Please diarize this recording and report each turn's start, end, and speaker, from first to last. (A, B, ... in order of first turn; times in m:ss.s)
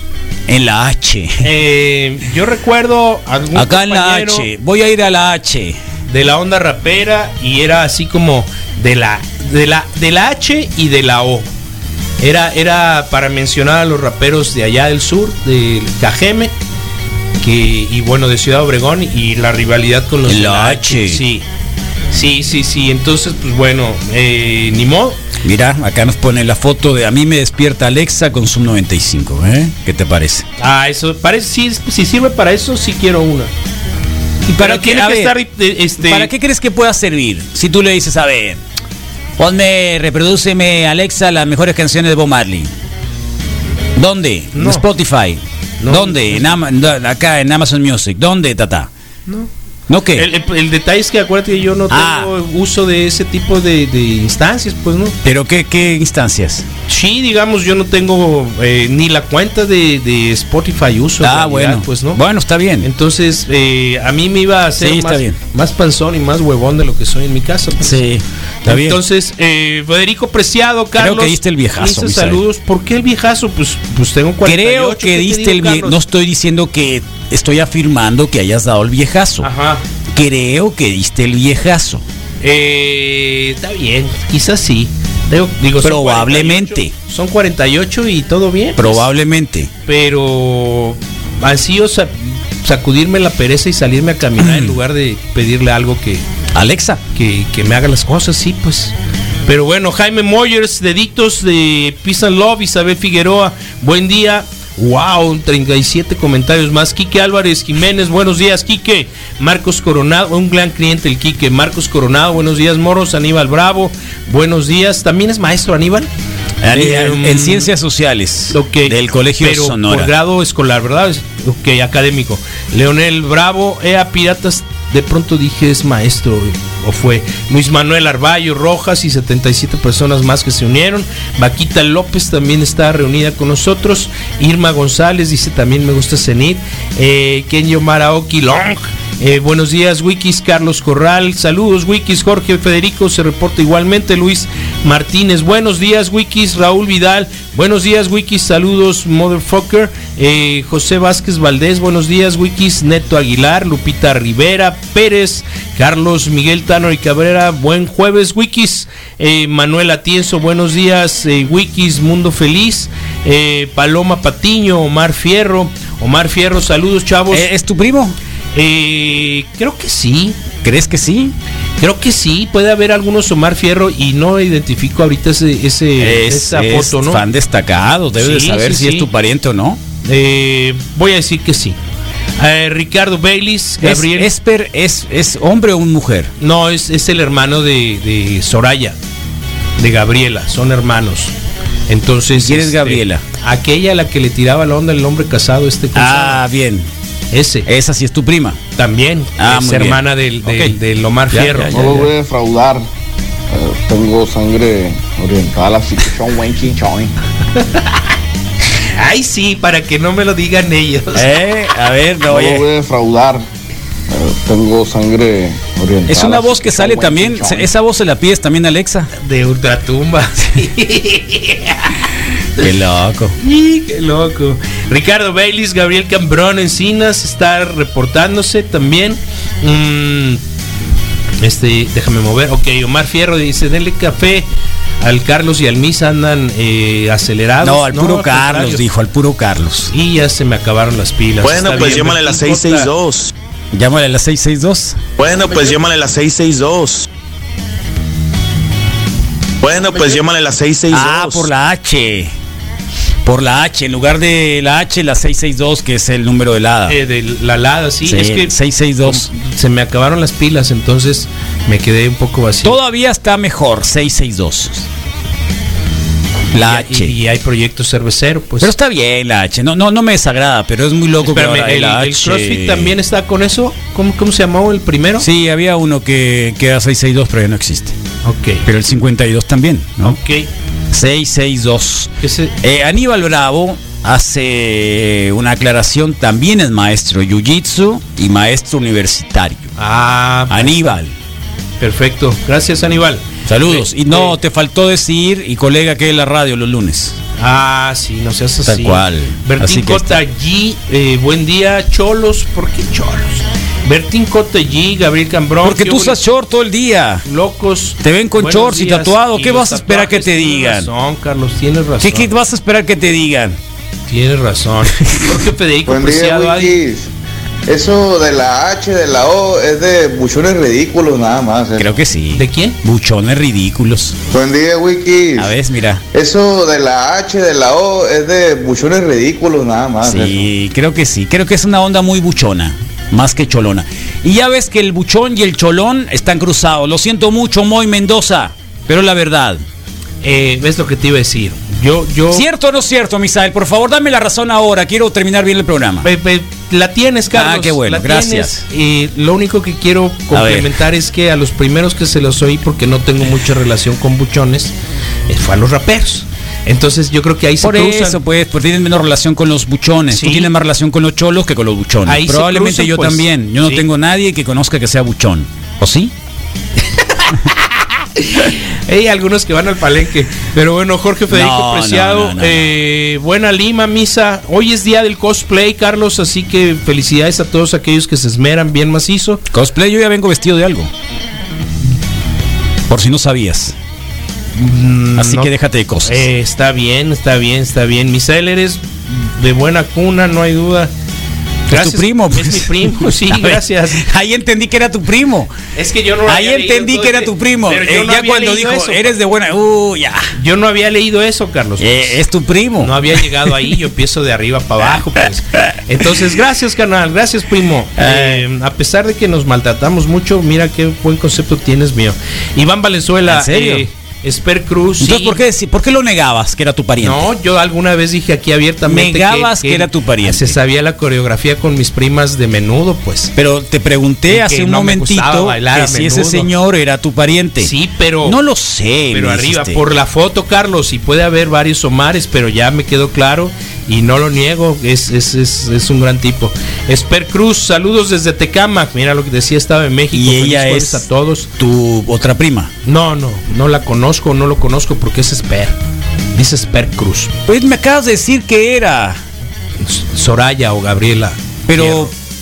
0:00.5-0:01.5 A
0:01.4-0:04.5 B
0:03.5-0:05.8 A
0:06.1-0:11.5 B
0:12.2-0:16.5 B
0:17.4-0:21.4 B
0:20.2-0:21.2 A
0:22.1-0:25.2 B
0:25.4-0:30.5 A
0:30.6-0:33.5 B
0:34.4-0:36.3 B
0:34.5-0:35.4 A
0:36.0-0:38.6 A
0:39.4-0:42.7 A
0:44.0-0:48.9 A
0:44.5-0:44.8 B
0:45.8-0:46.5 B
0:49.9-0:50.3 A
0:50.1-0:55.2 B
0:51.9-0:52.3 A
0:55.2-0:56.6 A
0:56.9-1:02.2 B
1:01.2-1:02.9 A
1:02.8-1:08.0 B
1:04.8-1:05.4 A
1:07.8-1:09.0 A
1:08.6-1:16.0 B
1:11.0-1:12.4 A
1:14.4-1:19.5 A
1:19.4-1:19.8 B
1:20.1-1:22.0 A
1:22.4-1:29.0 B
1:25.8-1:26.9 A
1:28.8-1:29.7 A
1:29.8-1:36.2 B
1:34.4-1:34.7 A
1:36.5-1:37.0 A
1:37.1-1:38.9 B
1:39.4-1:56.1 B
1:56.6-2:00.1 A
1:56.7-1:57.7 B
1:58.5-2:47.5 B
2:47.3-2:48.2 A
2:48.5-2:50.4 B
2:50.6-2:51.3 A
2:51.8-2:57.2 B
2:56.0-2:59.8 A
2:58.2-2:59.1 B
3:00.0-3:01.8 B
3:02.4-3:04.3 B
3:03.8-3:06.3 A
3:06.4-3:09.0 B
3:09.8-3:11.3 B
3:11.9-3:16.4 B
3:12.3-3:13.2 A
3:15.9-3:16.9 A
3:17.3-3:17.7 B
3:17.6-3:18.6 A
3:18.8-3:22.1 B
3:19.4-3:20.8 A
3:21.3-3:22.1 A
3:21.7-3:22.8 C
3:23.5-3:27.1 C
3:27.5-3:28.0 B
3:28.8-3:31.3 B
3:31.1-3:32.6 A
3:32.3-3:33.4 C
3:34.1-3:37.7 C
3:36.1-3:39.1 A
3:39.1-3:42.0 B
3:42.6-3:43.4 A
3:43.4-3:50.4 B
3:51.4-3:54.5 B
3:55.0-3:58.8 B
3:57.6-3:59.9 A
3:59.9-4:02.9 B
4:01.4-4:03.3 D
4:03.7-4:05.0 A
4:05.2-4:07.1 D
4:09.6-4:11.5 D
4:10.9-4:12.3 A
4:13.2-4:17.0 A
4:16.8-4:22.8 B
4:18.0-4:19.3 A
4:22.6-4:24.9 A
4:26.5-4:27.2 A
4:26.5-4:28.7 B
4:28.6-4:33.0 A
4:31.2-4:35.3 B
4:35.2-4:38.0 A
4:38.2-4:38.6 B
4:38.6-4:40.2 A
4:40.0-4:40.5 B
4:40.9-4:49.7 A
4:42.2-4:42.6 B
4:49.8-4:50.9 B
4:50.5-4:51.1 A
4:51.8-4:54.4 B
4:53.4-4:57.2 A
4:57.4-5:06.2 B
4:58.6-5:00.2 A
5:05.6-5:07.2 A
5:07.2-5:12.3 B
5:08.0-5:10.9 A
5:12.0-5:13.6 A
5:14.1-5:16.8 B
5:15.8-5:17.1 C
5:17.7-5:22.0 C
5:21.8-5:24.1 A
5:22.3-5:22.8 B
5:24.3-5:25.5 C
5:25.4-5:26.0 A
5:26.1-5:30.5 C
5:30.0-5:39.6 A
5:40.2-5:42.4 B
5:42.3-5:46.1 A
5:46.0-5:54.7 B
5:47.3-5:48.6 A
5:50.3-5:50.7 A
5:55.3-5:58.2 B
5:57.6-6:06.1 A
6:00.1-6:00.5 B
6:02.0-6:03.9 B
6:06.8-6:19.4 B
6:11.3-6:12.7 A
6:19.5-6:20.9 A
6:22.9-6:23.7 A
6:24.5-6:25.5 B
6:25.2-6:26.2 A
6:26.0-6:30.9 B
6:31.7-6:34.0 B
6:31.7-6:35.5 A
6:35.7-6:39.2 B
6:36.3-6:40.3 A
6:40.3-6:42.2 B
6:41.8-6:43.2 A
6:42.8-6:55.4 B
6:48.0-6:48.4 A
6:53.3-6:53.8 A
6:55.0-6:57.3 A
6:57.0-7:03.3 B
6:58.8-7:00.6 A
7:03.4-7:07.7 A
7:04.3-7:06.5 B
7:07.6-7:08.4 B
7:08.2-7:09.8 A
7:09.1-7:21.5 B
7:20.1-7:21.0 A
7:21.6-7:22.7 A
7:22.8-7:25.8 B
7:26.3-7:27.3 B
7:27.5-7:29.2 A
7:29.8-7:32.1 B
7:31.7-7:32.1 A